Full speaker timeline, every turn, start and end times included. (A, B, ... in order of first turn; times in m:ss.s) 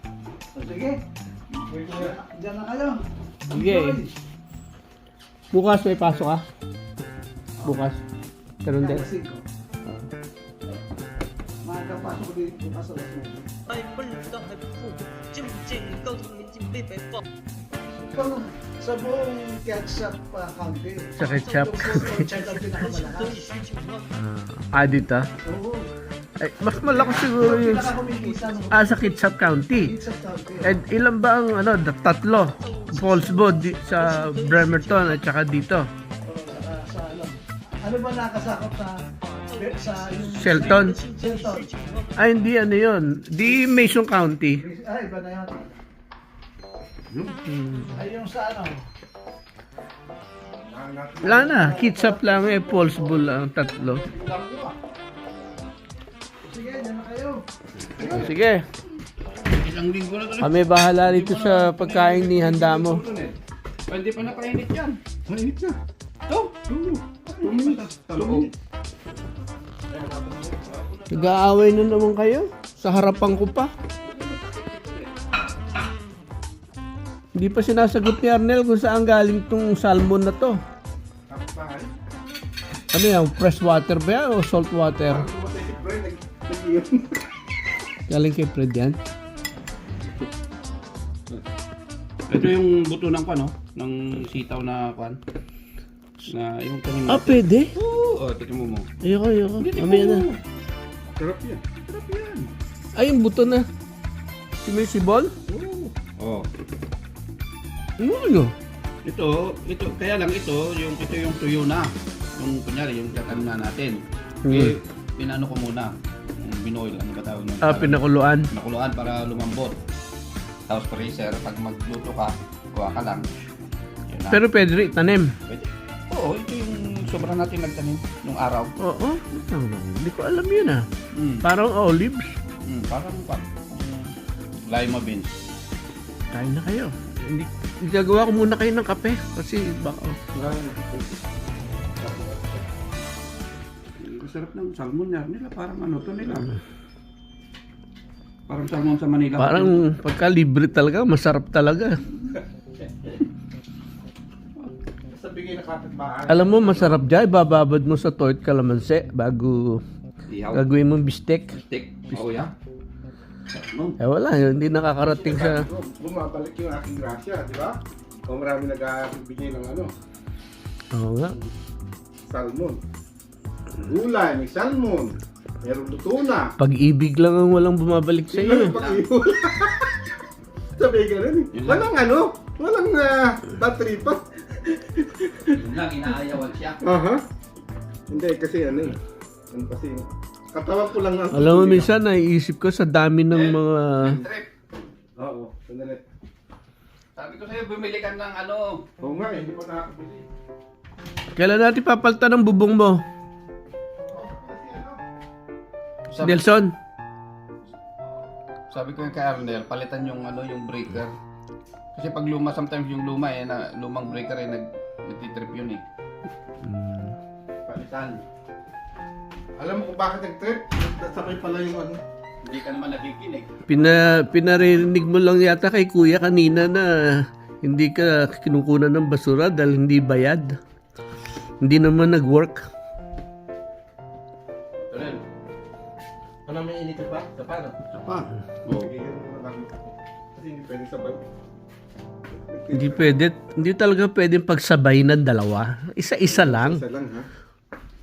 0:00.6-0:01.0 A
0:01.7-0:02.2 B
0:01.9-0:04.2 A
0:03.5-0:04.0 C
0:05.5-0:06.4 C
0:07.6-0:08.0 C
0:08.6-0:09.1 C
0:08.8-0:09.4 A
0:11.6-0:13.6 A
0:13.7-0:17.2 D
0:17.8-0:23.4 A
0:21.2-0:22.3 C
0:22.9-0:24.1 D
0:24.2-0:25.3 C
0:25.4-0:25.9 A
0:26.4-0:27.9 C
0:26.8-0:29.1 A
0:28.7-0:30.0 C
0:29.8-0:30.7 A
0:30.6-0:35.9 C
0:32.7-0:35.1 D
0:36.2-0:39.0 A
0:39.4-0:42.1 D
0:39.6-0:41.7 A
0:40.3-0:41.0 C
0:42.2-0:44.6 C
0:44.6-0:45.7 A
0:47.1-0:47.3 B
0:47.5-0:48.0 C
0:48.0-0:48.8 A
0:50.6-0:51.9 B
0:51.2-0:54.0 C
0:51.5-0:52.5 A
0:52.4-0:54.7 B
0:56.5-0:57.4 A
0:58.0-0:58.3 B
0:58.0-0:58.6 C
0:59.5-1:01.7 E
1:00.4-1:03.0 C
1:01.8-1:03.4 B
1:03.9-1:05.0 E
1:05.3-1:05.8 B
1:06.7-1:08.5 B
1:07.4-1:08.5 E
1:09.9-1:10.7 B
1:10.7-1:11.5 E
1:11.1-1:13.7 C
1:14.0-1:15.1 E
1:17.4-1:20.6 C
1:21.3-1:21.9 B
1:22.9-1:25.3 C
1:25.1-1:27.3 B
1:28.1-1:29.0 C
1:32.3-1:35.2 E
1:36.2-1:38.9 E
1:37.1-1:37.7 C
1:39.0-1:40.2 C
1:39.6-1:40.4 B
1:41.2-1:41.6 B
1:41.8-1:42.5 E
1:43.0-1:43.7 C
1:44.6-1:45.3 C
1:45.5-1:46.0 B
1:46.2-1:46.5 E
1:48.0-1:48.5 C
1:49.0-1:59.8 E
1:54.4-1:54.7 C
1:57.6-1:58.5 C
2:00.7-2:03.2 E
2:04.1-2:04.4 E
2:04.3-2:05.3 C
2:05.5-2:08.7 E
2:08.8-2:10.9 C
2:11.1-2:11.4 E
2:11.4-2:12.3 C
2:12.7-2:15.3 E
2:16.3-2:20.2 C
2:20.3-2:21.2 B
2:22.0-2:22.6 B
2:24.0-2:26.5 E
2:28.5-2:29.8 E
2:29.4-2:32.0 C
2:35.1-2:37.0 B
2:36.3-2:39.8 C
2:40.3-2:40.6 E
2:40.5-2:41.6 C
2:41.7-2:42.5 E
2:43.5-2:44.0 E
2:44.0-2:45.6 C
2:45.1-2:47.8 B
2:48.3-2:49.9 B
2:50.9-2:51.4 C
2:52.3-2:52.8 B
2:53.8-2:56.5 B
2:56.6-2:58.8 C
2:58.3-3:00.0 B
2:58.8-2:59.1 E
3:00.8-3:05.6 B
3:01.5-3:01.9 E
3:05.5-3:06.8 E
3:06.8-3:07.2 B
3:08.1-3:09.0 B
3:09.5-3:11.9 B
3:11.3-3:14.2 C
3:13.3-3:14.5 E
3:15.2-3:16.0 B
3:17.2-3:18.8 E
3:19.0-3:20.2 B
3:21.4-3:23.0 C
3:24.1-3:25.0 B
3:26.1-3:26.4 E
3:26.2-3:26.7 C
3:28.7-3:31.1 E
3:32.0-3:35.8 E
3:36.6-3:37.2 C
3:37.7-3:38.2 E
3:39.6-3:42.0 B
3:42.4-3:43.6 E
3:43.7-3:46.9 C
3:47.6-3:50.6 C
3:51.6-3:52.6 C
3:54.9-3:55.2 E
3:56.5-3:57.8 B
3:57.9-3:58.9 E
3:58.7-4:01.2 B
4:02.3-4:03.1 B
4:02.7-4:06.8 C
4:06.3-4:07.3 B